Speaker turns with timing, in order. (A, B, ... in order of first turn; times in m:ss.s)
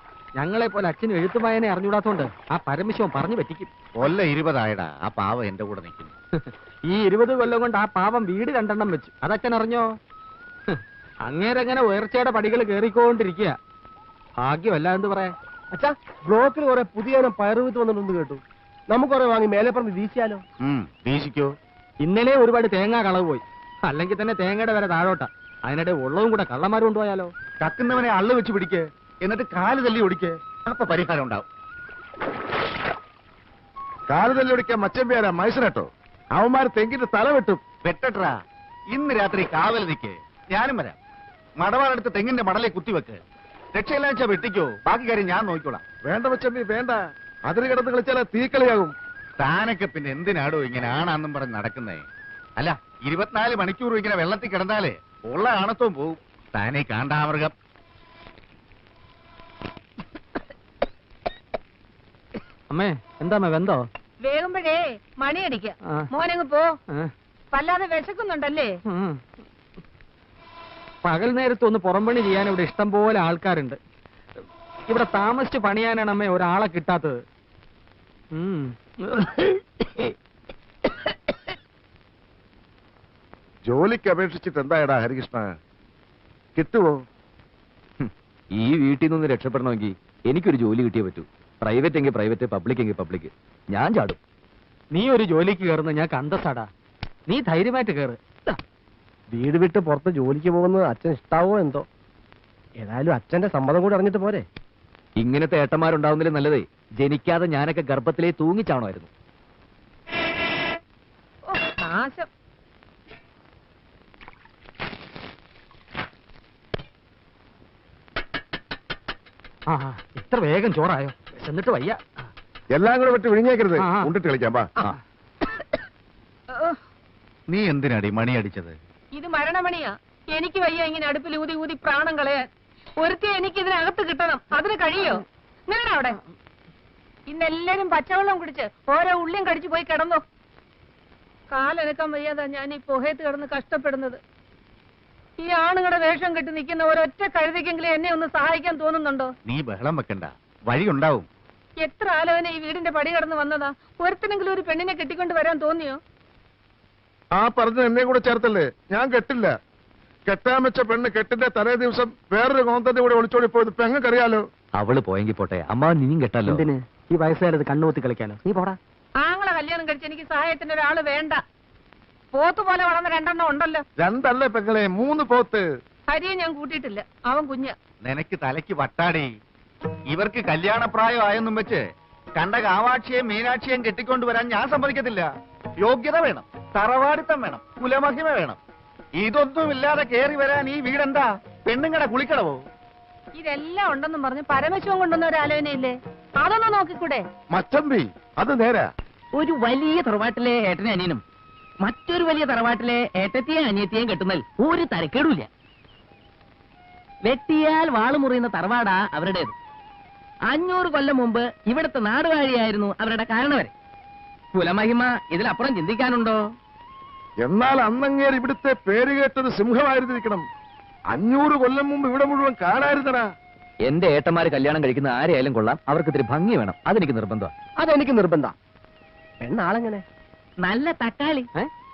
0:00.4-0:03.7 A
0:04.0-0:06.1 B
0:06.9-0:09.9 A
0:10.7-0:13.6 A
0:14.4-0:15.3 A
0:15.7-0:20.4 C
0:20.6-0:21.5 B
0:22.0-0:27.3 A
0:27.6-0:31.4 B
0:34.1-0:37.7 D
0:37.8-0:38.3 B
0:38.9-0:41.0 B
0:41.6-0:43.2 B
0:43.7-0:45.8 B
0:46.1-0:48.9 D
0:49.4-0:52.0 B
0:52.6-0:57.5 B
1:02.7-1:03.8 A
1:04.2-1:06.7 E
1:07.5-1:08.7 E
1:08.9-1:09.2 A
1:11.0-1:13.8 A
1:14.9-1:17.2 A
1:18.3-1:19.5 A
1:23.7-1:25.5 D
1:26.6-1:26.9 D
1:28.0-1:34.2 F
1:34.9-1:36.7 A
1:37.3-1:38.6 A
1:39.3-1:41.8 C
1:42.8-1:44.4 C
1:45.2-1:49.1 F
1:51.5-1:52.3 E
1:59.7-2:02.0 A
2:02.8-2:04.9 D
2:03.8-2:04.1 A
2:07.5-2:08.8 B
2:09.1-2:12.4 E
2:13.0-2:16.2 E
2:17.3-2:20.2 E
2:21.5-2:24.2 E
2:25.4-2:29.3 E
2:29.5-2:31.3 B
2:31.8-2:36.0 E
2:37.4-2:39.5 D
2:40.3-2:44.4 D
2:44.8-2:46.6 F
2:46.5-2:48.8 A
2:49.2-2:51.4 E
2:52.3-2:53.8 E
2:54.0-2:55.6 D
2:56.1-2:57.7 E
2:58.0-2:59.3 B
3:00.1-3:01.8 B
3:02.4-3:05.3 B
3:05.8-3:08.6 B
3:09.2-3:12.6 B
3:13.4-3:17.2 E
3:17.5-3:18.9 D
3:19.3-3:21.2 G
3:21.8-3:25.5 G
3:27.2-3:29.5 G
3:30.5-3:33.7 G
3:34.5-3:36.5 G
3:37.4-3:40.4 D
3:41.1-3:43.3 D
3:43.8-3:47.5 F
3:47.8-3:48.5 C
3:49.4-3:50.0 C
3:50.6-3:51.5 G